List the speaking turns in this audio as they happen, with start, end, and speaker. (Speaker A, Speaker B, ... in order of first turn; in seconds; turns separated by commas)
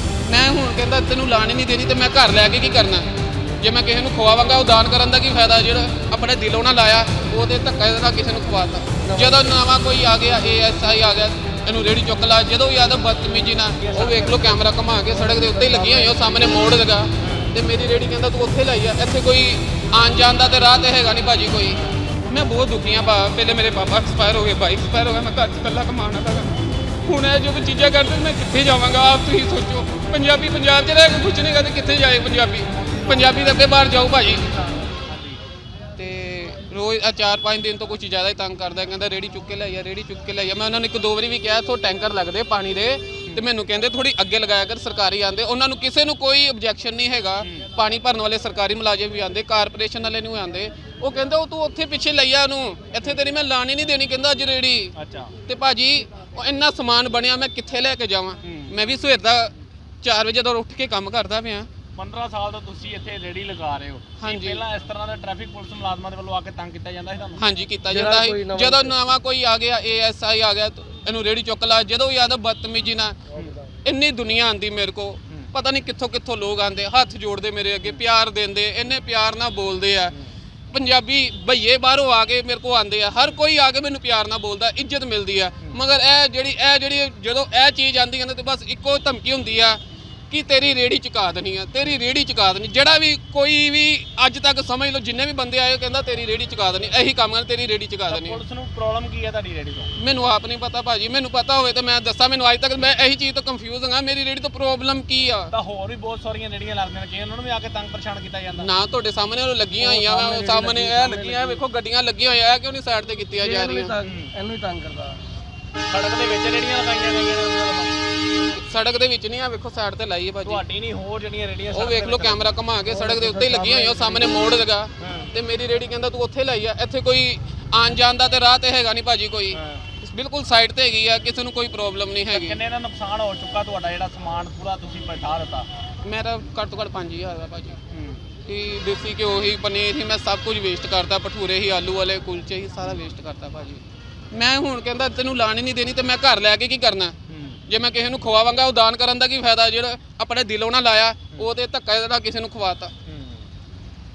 Speaker A: 0.2-34.5, Speaker B: 13.8-14.6, Speaker C: 15.5-16.0, Speaker B: 17.2-17.5, Speaker B: 35.0-35.4, Speaker A: 36.0-54.9, Speaker B: 47.4-47.7, Speaker B: 55.0-55.3, Speaker A: 55.5-61.7, Speaker B: 58.4-58.7, Speaker B: 62.0-67.4, Speaker A: 64.2-64.6, Speaker A: 67.4-73.2, Speaker C: 67.9-68.9, Speaker A: 73.8-80.1, Speaker A: 80.7-89.8, Speaker A: 90.3-98.4, Speaker B: 98.1-99.9, Speaker A: 100.0-105.5, Speaker B: 105.5-108.7, Speaker A: 108.6-114.0, Speaker C: 109.8-111.6, Speaker C: 113.4-115.2, Speaker B: 114.0-114.3, Speaker B: 115.9-118.0, Speaker A: 118.3-120.6, Speaker B: 120.4-122.5, Speaker A: 121.7-132.6, Speaker C: 122.9-124.5, Speaker B: 125.0-125.3, Speaker B: 129.5-129.8, Speaker B: 132.3-135.7, Speaker A: 136.0-137.8, Speaker B: 137.9-138.2, Speaker A: 138.4-147.1, Speaker B: 147.3-147.6, Speaker A: 147.7-152.9, Speaker B: 153.0-153.5